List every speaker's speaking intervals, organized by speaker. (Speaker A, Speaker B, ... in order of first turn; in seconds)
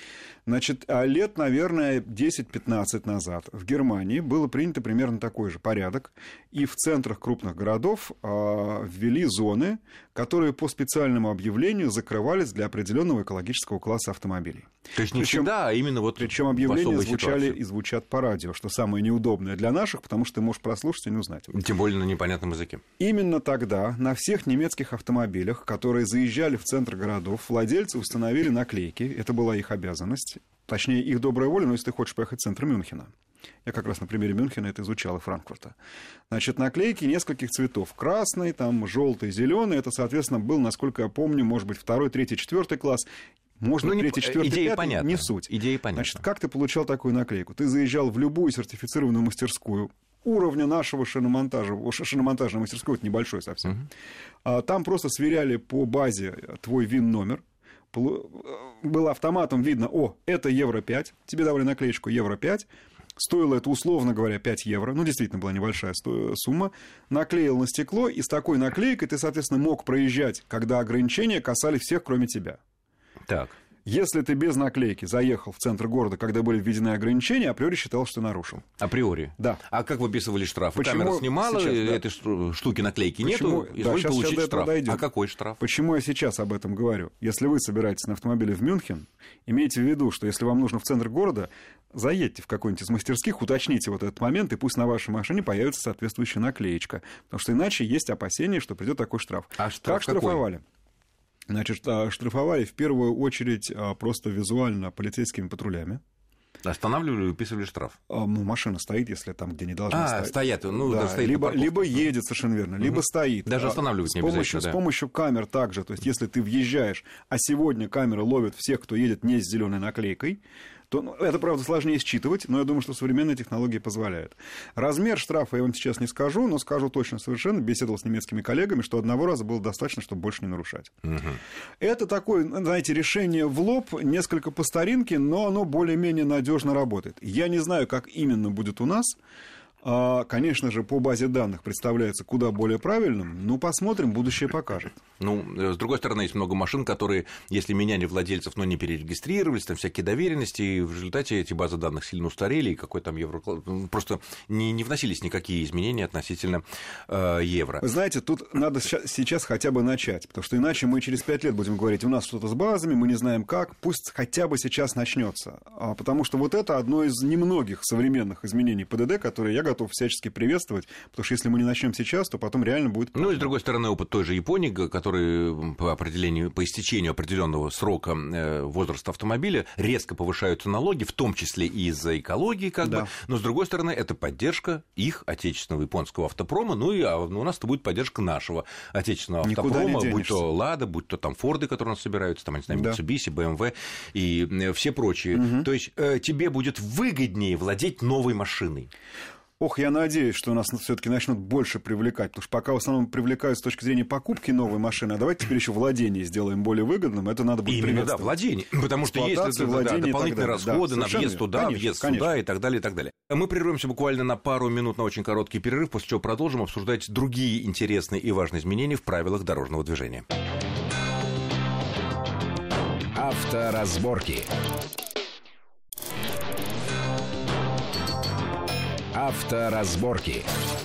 Speaker A: 0.5-15.5, 16.2-21.5, 23.0-33.1, 33.6-35.8, 36.3-43.1, 43.6-53.9, 54.4-72.6, 73.8-78.7, 80.7-82.0, 83.2-85.0, 85.6-100.6, 101.5-106.0, 108.1-130.9, 131.8-139.2, 139.8-145.0, 157.8-173.5, 182.8-183.1, 189.4-190.4, 192.7-193.0, 195.3-195.7, 199.6-208.3, 209.0-212.3
Speaker B: 14.9-17.6, 21.5-22.8, 43.8-46.2, 73.3-73.5, 78.8-85.6, 99.6-100.4, 106.6-108.0, 109.9-112.1, 112.8-114.8, 131.0-131.4, 145.2-157.8, 173.1-198.9, 207.7-220.2
Speaker C: 223.1-224.5, 229.1-230.5